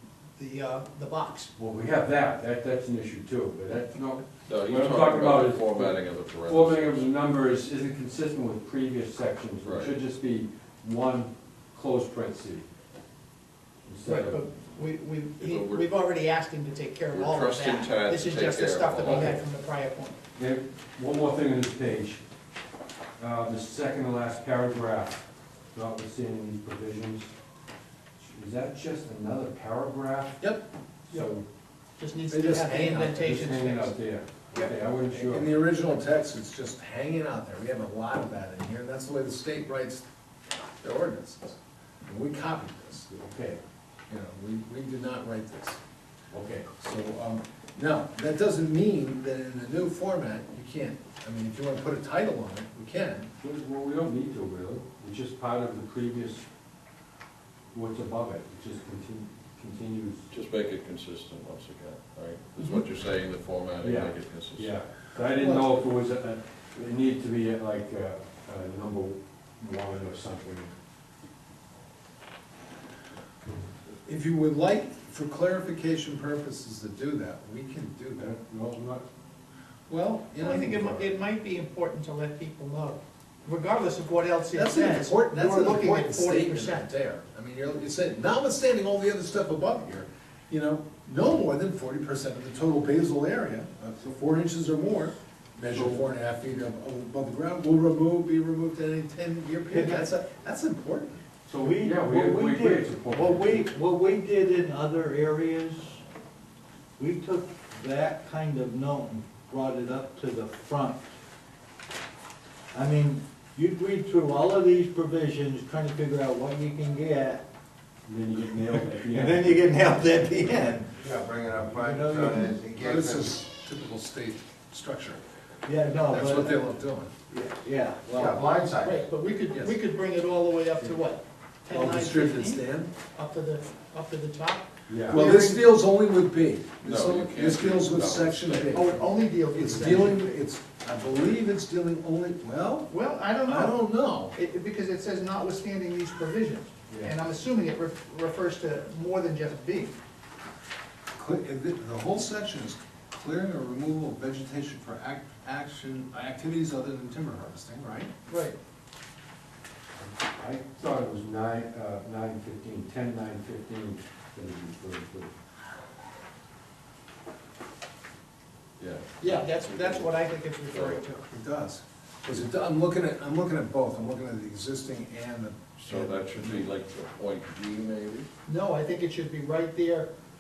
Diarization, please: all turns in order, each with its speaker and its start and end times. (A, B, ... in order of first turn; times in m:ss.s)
0:00.4-0:01.5 A
0:01.6-0:12.7 B
0:04.5-0:07.1 C
0:09.6-0:09.9 C
0:13.8-0:14.4 B
0:14.0-0:20.2 A
0:15.4-0:15.9 C
0:17.1-0:19.4 C
0:20.4-0:22.2 B
0:23.2-0:25.2 B
0:25.7-0:27.3 B
0:28.2-0:30.5 B
0:30.4-0:30.7 D
0:31.1-0:31.4 B
0:32.0-0:34.0 A
0:32.3-0:33.3 D
0:33.2-0:35.5 B
0:35.1-0:43.1 D
0:43.1-0:43.6 B
0:44.1-0:45.8 D
0:46.3-0:46.7 B
0:46.8-0:53.3 D
0:53.4-0:56.4 B
0:57.7-1:00.2 B
1:00.3-1:04.7 C
1:03.8-1:10.8 B
1:05.3-1:05.8 D
1:14.0-1:18.6 D
1:18.5-1:19.1 B
1:19.9-1:21.1 D
1:20.4-1:26.9 A
1:24.5-1:41.2 D
1:35.7-1:36.0 B
1:39.7-1:40.1 E
1:41.5-1:43.7 B
1:41.6-1:46.0 E
1:47.0-1:51.1 E
1:52.7-1:57.4 E
1:58.1-1:59.8 B
1:59.1-2:01.0 E
2:01.0-2:03.4 F
2:01.8-2:02.5 E
2:02.7-2:05.2 D
2:05.7-2:06.6 E
2:06.1-2:07.1 D
2:07.3-2:08.4 E
2:08.1-2:09.1 F
2:08.5-2:15.6 A
2:11.7-2:12.9 D
2:14.9-2:15.5 B
2:15.1-2:19.0 D
2:16.8-2:19.0 C
2:18.7-2:20.3 A
2:19.5-2:22.9 D
2:19.7-2:19.9 B
2:22.9-2:29.9 A
2:23.4-2:24.4 D
2:31.2-2:38.1 D
2:38.3-2:38.6 A
2:40.0-2:45.3 B
2:48.8-2:50.1 C
2:49.2-2:51.3 A
2:50.7-2:51.0 C
2:51.3-2:56.7 D
2:55.8-2:58.3 C
2:58.5-3:00.1 A